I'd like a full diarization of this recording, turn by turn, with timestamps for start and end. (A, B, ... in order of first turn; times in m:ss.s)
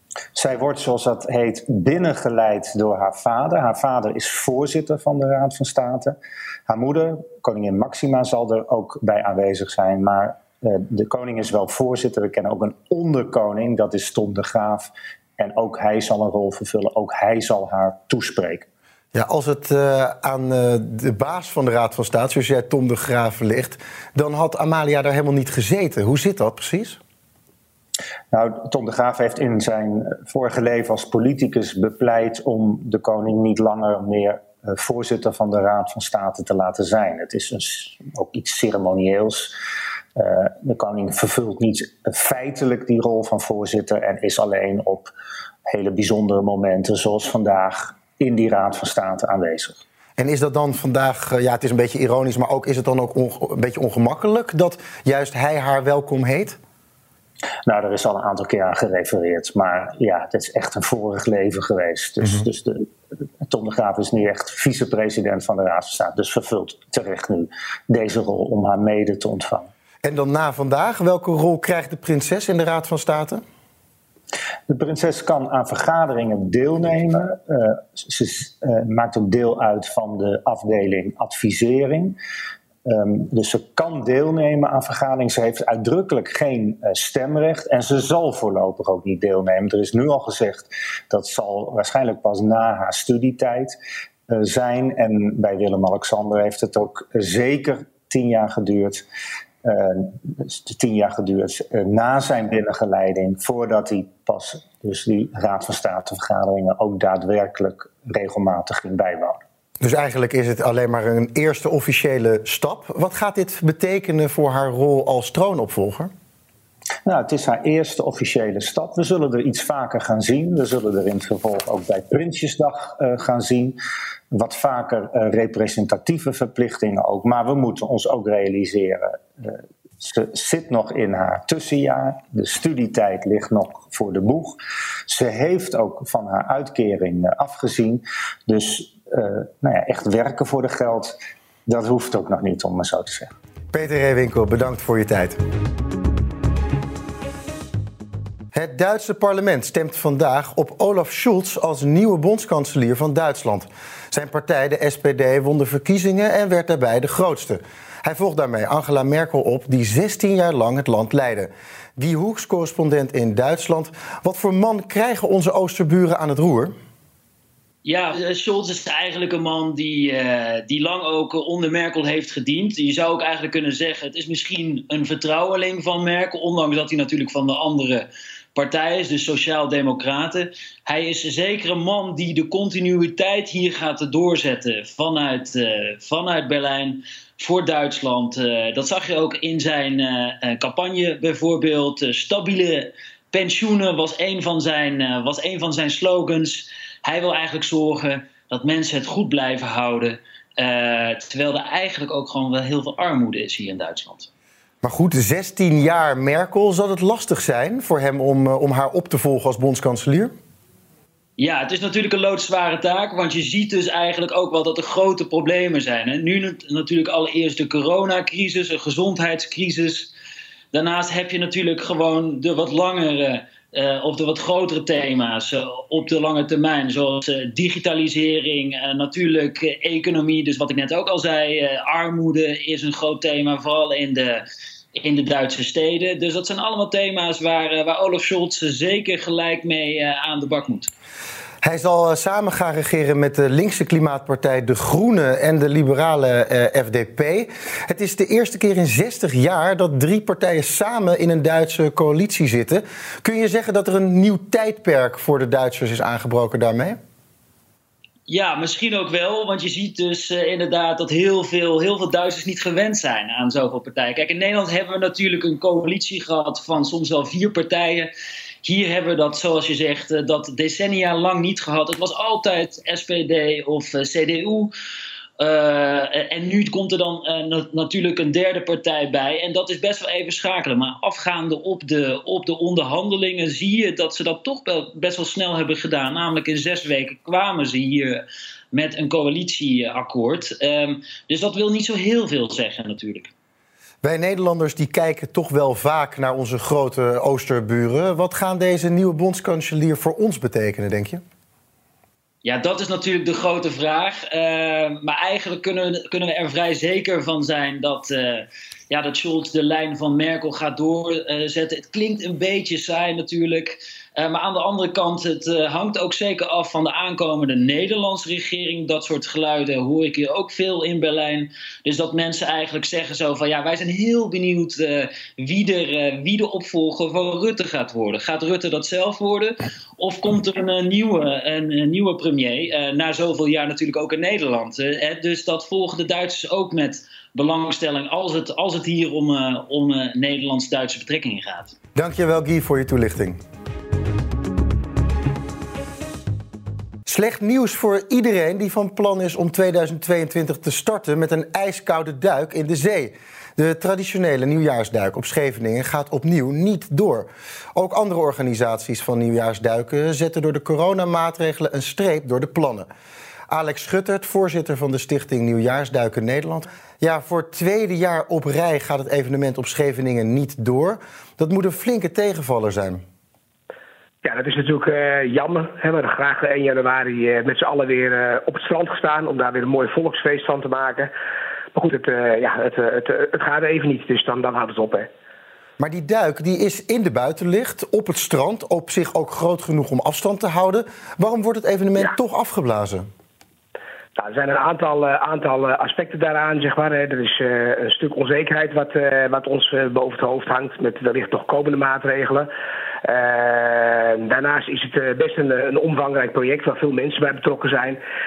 0:00.3-0:06.2 A
0:06.7-0:18.6 A
0:19.1-0:27.0 B
0:28.3-0:39.5 A
0:40.2-0:45.1 A
0:45.6-0:49.8 A
0:50.2-0:56.6 B
0:57.6-1:02.9 A
1:03.4-1:09.7 A
1:10.0-1:13.4 B
1:14.7-1:22.2 A
1:22.8-1:33.7 A
1:34.3-1:39.0 A
1:39.6-1:49.4 A
1:49.8-1:56.1 B
1:57.0-2:03.8 A
2:04.3-2:14.6 A
2:15.1-2:23.3 A
2:23.7-2:25.4 B
2:28.5-2:46.7 B
2:47.8-3:24.3 C
3:24.8-3:30.3 B
3:31.4-3:40.1 C
3:40.7-4:00.9 C
4:01.6-4:17.0 B
4:18.3-4:28.1 C
4:28.6-4:34.7 C
4:35.4-4:53.3 C
4:54.0-5:01.2 B
5:02.4-5:41.7 C
5:41.9-5:43.4 B
5:47.0-6:02.9 B
6:03.5-6:13.0 B
6:14.2-6:21.1 D
6:21.7-6:25.1 D
6:25.8-6:33.0 B
6:34.2-6:42.5 D
6:43.0-6:48.0 D